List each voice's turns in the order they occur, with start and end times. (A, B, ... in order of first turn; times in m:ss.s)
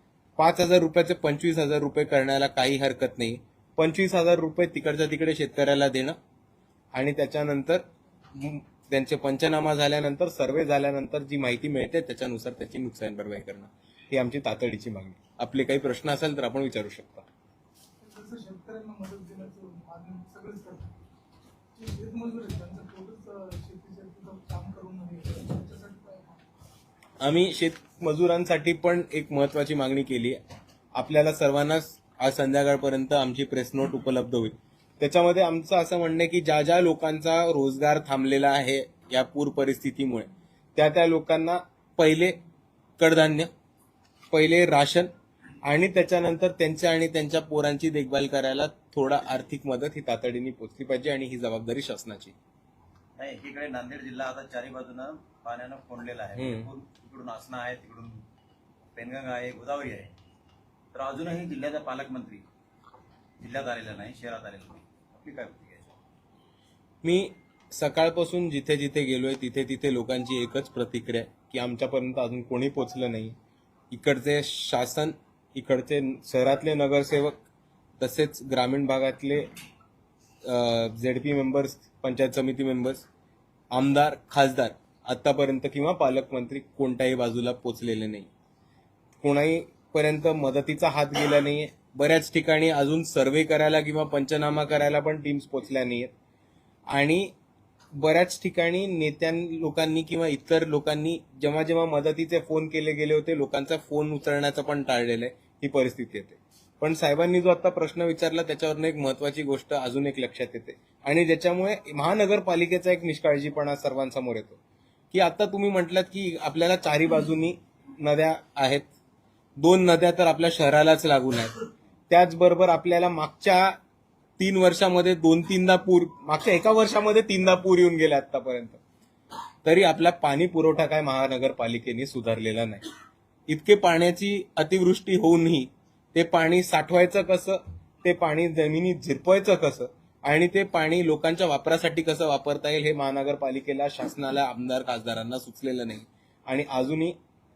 0:00.4-0:06.2 A
0:06.9-0:07.8 A
0:08.4-0:17.2 A
0:18.0-0:20.9 B
0:21.8-0:26.4 B
0:27.2-0:30.4 A
0:30.9-0:42.4 A
0:43.0-0:43.5 A
0:44.3-0:45.1 A
0:45.6-0:52.3 A
0:53.2-0:58.2 C
0:56.3-0:56.7 A
0:58.9-1:00.1 C
1:00.9-1:02.4 C
1:03.4-1:05.8 C
1:07.0-1:13.3 A
1:13.9-1:17.4 A
1:18.0-1:19.5 A
1:20.4-1:23.0 A
1:23.7-1:28.3 A
1:29.2-1:36.1 A
1:36.9-1:37.3 A
1:38.0-1:54.6 A
1:55.1-1:58.9 A
1:59.6-2:03.8 A
2:04.4-2:08.8 A
2:09.6-2:12.8 A
2:13.5-2:27.2 A